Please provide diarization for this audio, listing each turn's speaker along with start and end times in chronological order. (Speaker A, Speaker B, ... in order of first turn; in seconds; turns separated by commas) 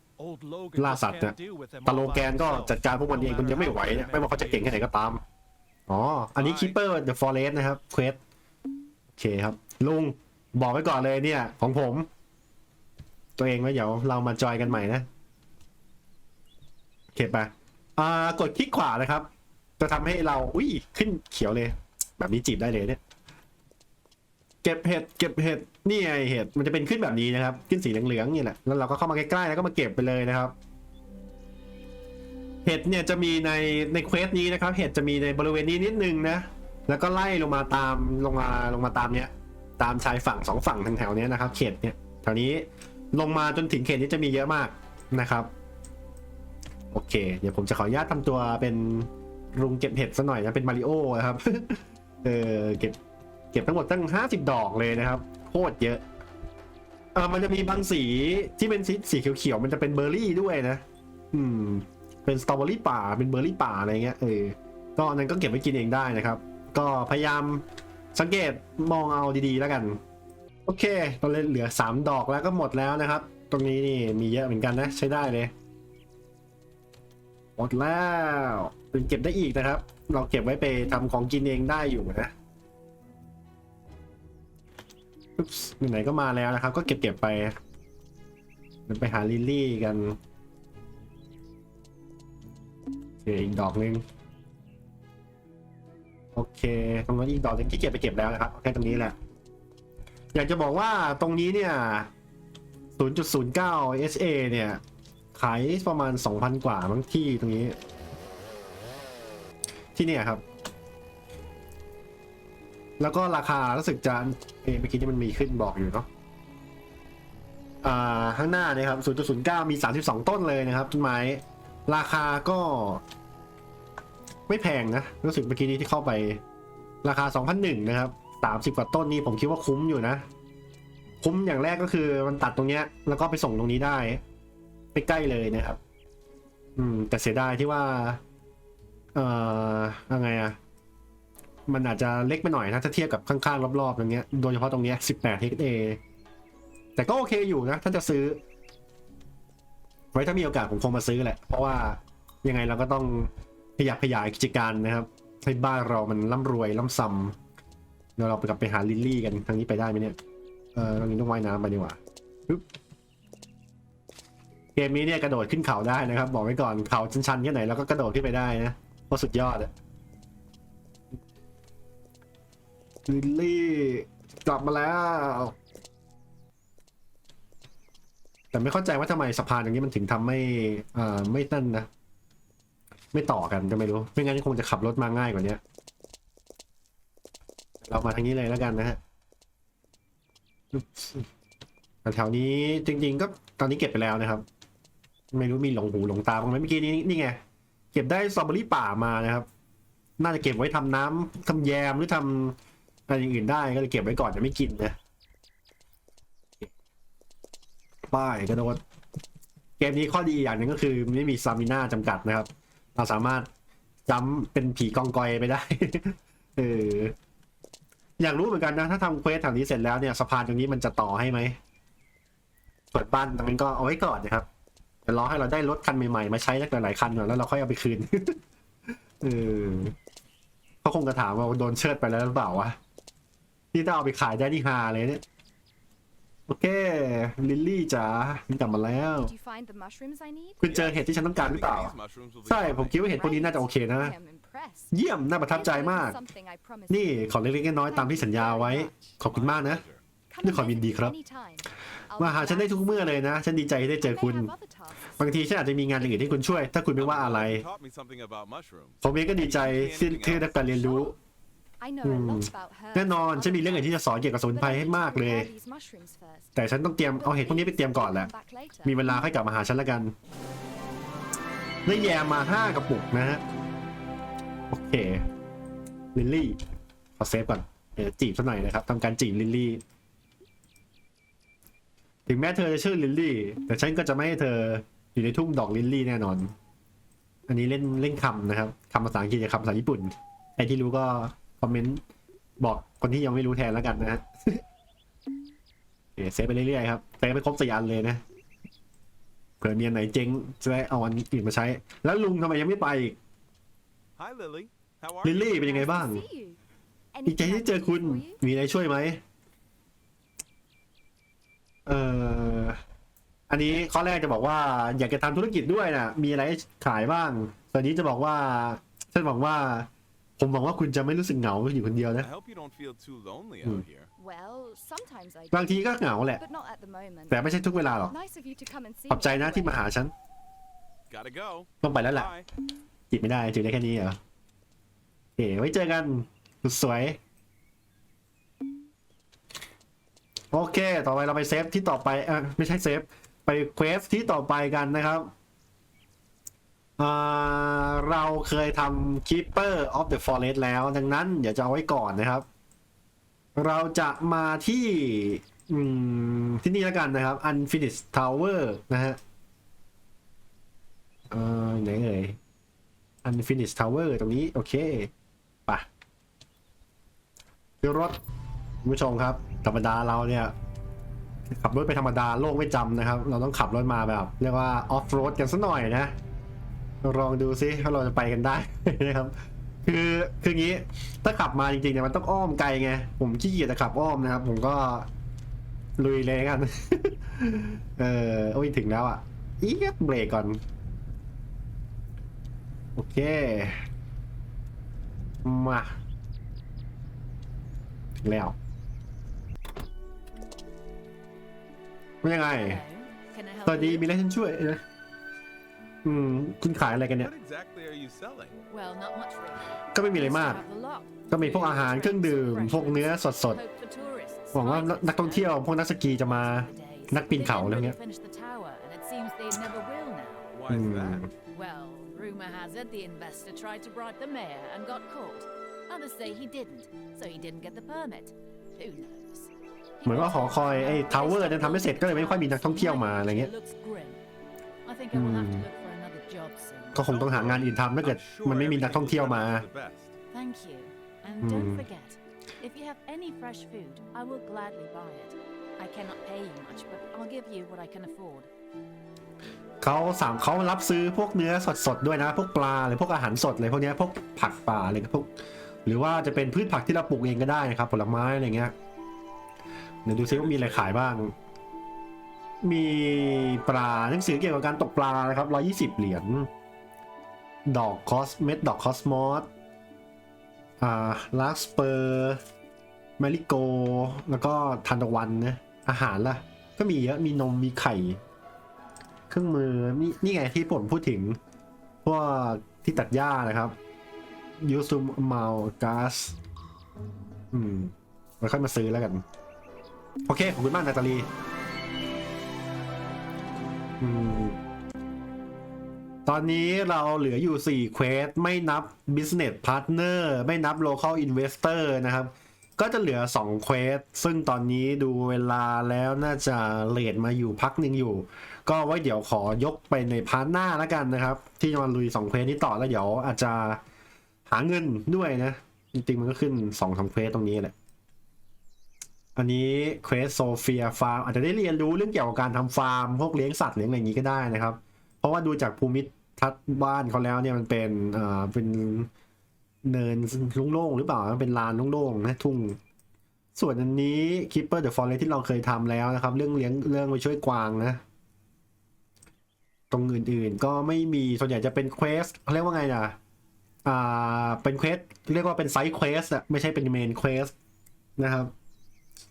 Speaker A: 0.2-4.8, Speaker B: 0.8-5.2, Speaker B: 5.9-8.2, Speaker C: 6.4-6.8, Speaker B: 9.2-12.1, Speaker B: 13.4-15.1, Speaker B: 17.1-19.3, Speaker B: 19.8-23.0, Speaker B: 24.6-30.5, Speaker B: 32.6-45.5, Speaker B: 46.9-53.0, Speaker B: 53.5-56.0, Speaker B: 57.1-70.0, Speaker B: 70.7-75.5, Speaker B: 77.6-82.3, Speaker B: 85.4-87.6, Speaker B: 88.9-90.2, Speaker B: 93.2-94.0, Speaker B: 96.3-99.2, Speaker B: 100.3-102.1, Speaker B: 103.0-104.8, Speaker B: 105.3-107.8, Speaker B: 110.0-110.4, Speaker B: 113.0-116.1, Speaker B: 117.8-123.0, Speaker B: 124.5-126.4, Speaker B: 127.0-130.2, Speaker B: 131.2-134.2, Speaker B: 134.9-135.8, Speaker B: 136.8-138.2, Speaker B: 139.2-140.6, Speaker B: 141.7-146.0, Speaker B: 147.0-148.4, Speaker B: 150.1-157.4, Speaker B: 158.2-160.2, Speaker B: 160.8-162.7, Speaker B: 164.8-169.7, Speaker B: 173.1-175.6, Speaker B: 178.5-181.9, Speaker B: 183.1-185.6, Speaker B: 187.8-189.0, Speaker B: 190.7-191.3, Speaker B: 192.0-194.4, Speaker B: 195.3-197.4, Speaker B: 197.9-199.5, Speaker B: 200.2-202.6, Speaker B: 203.1-205.0, Speaker B: 208.1-208.8, Speaker B: 209.8-213.5, Speaker B: 214.1-217.2, Speaker B: 218.2-221.6, Speaker B: 222.9-224.5, Speaker B: 225.1-228.4, Speaker B: 229.2-229.9, Speaker B: 230.8-232.8, Speaker B: 233.7-235.2, Speaker B: 236.5-239.3, Speaker D: 239.2-240.8, Speaker B: 240.6-244.2, Speaker C: 240.6-243.0, Speaker D: 243.0-244.9, Speaker B: 244.9-246.2, Speaker D: 245.5-249.2, Speaker B: 246.9-249.8, Speaker C: 249.2-250.0, Speaker D: 250.3-253.3, Speaker B: 250.4-251.2, Speaker B: 252.2-254.5, Speaker D: 254.0-256.8, Speaker B: 255.2-257.7, Speaker C: 257.0-260.5, Speaker B: 259.0-261.1, Speaker D: 260.7-261.1, Speaker D: 261.8-263.9, Speaker B: 262.0-265.5, Speaker D: 264.5-266.6, Speaker B: 266.6-268.3, Speaker D: 267.1-269.3, Speaker B: 268.8-270.1, Speaker B: 271.9-273.4, Speaker B: 274.7-275.2, Speaker B: 276.1-276.6, Speaker B: 277.2-279.8, Speaker B: 282.3-286.5, Speaker B: 287.5-292.0, Speaker B: 292.6-294.6, Speaker B: 296.2-298.2, Speaker B: 299.6-303.2, Speaker C: 304.2-305.6, Speaker B: 305.2-306.2, Speaker D: 305.5-306.6, Speaker D: 307.1-308.4, Speaker B: 307.2-309.2, Speaker B: 311.9-312.8, Speaker B: 313.5-322.3, Speaker C: 322.2-324.1, Speaker D: 324.2-329.9, Speaker B: 325.5-326.4, Speaker B: 327.3-328.1, Speaker B: 329.1-330.1, Speaker C: 331.1-332.5, Speaker B: 331.8-332.3, Speaker B: 333.1-334.2, Speaker B: 335.4-337.2, Speaker B: 340.5-345.3, Speaker B: 347.0-352.5, Speaker B: 353.6-359.2, Speaker B: 361.3-362.4, Speaker B: 363.2-365.1, Speaker B: 367.8-368.2, Speaker B: 368.8-370.5, Speaker B: 371.5-376.1, Speaker B: 377.0-385.1, Speaker B: 386.0-390.6, Speaker B: 392.9-393.8, Speaker B: 395.4-396.0, Speaker B: 398.2-398.6, Speaker B: 402.2-402.8, Speaker E: 402.5-404.1, Speaker B: 403.7-404.8, Speaker B: 406.1-407.3, Speaker C: 407.1-408.6, Speaker E: 408.7-420.5, Speaker B: 409.9-410.6, Speaker B: 411.3-413.6, Speaker B: 414.5-418.0, Speaker C: 420.5-421.3, Speaker B: 420.7-421.3, Speaker E: 421.5-429.5, Speaker E: 430.0-434.2, Speaker B: 430.0-433.5, Speaker E: 434.9-437.1, Speaker B: 435.1-435.7, Speaker B: 436.9-439.7, Speaker C: 437.1-440.2, Speaker E: 440.3-448.5, Speaker B: 441.4-441.8, Speaker B: 449.8-455.3, Speaker B: 455.9-458.7, Speaker B: 460.1-461.3, Speaker C: 460.2-461.0, Speaker B: 462.6-466.5, Speaker B: 467.7-469.5, Speaker B: 470.8-472.4, Speaker B: 473.2-478.2, Speaker B: 479.3-481.4, Speaker B: 482.0-483.8, Speaker B: 484.6-486.4, Speaker B: 487.5-489.2, Speaker B: 490.3-491.3, Speaker B: 494.0-494.6, Speaker B: 496.3-513.8, Speaker B: 514.5-517.7, Speaker B: 519.4-529.1, Speaker B: 529.9-532.8, Speaker B: 533.6-538.0, Speaker B: 539.9-543.2, Speaker B: 543.9-547.5, Speaker B: 548.2-548.5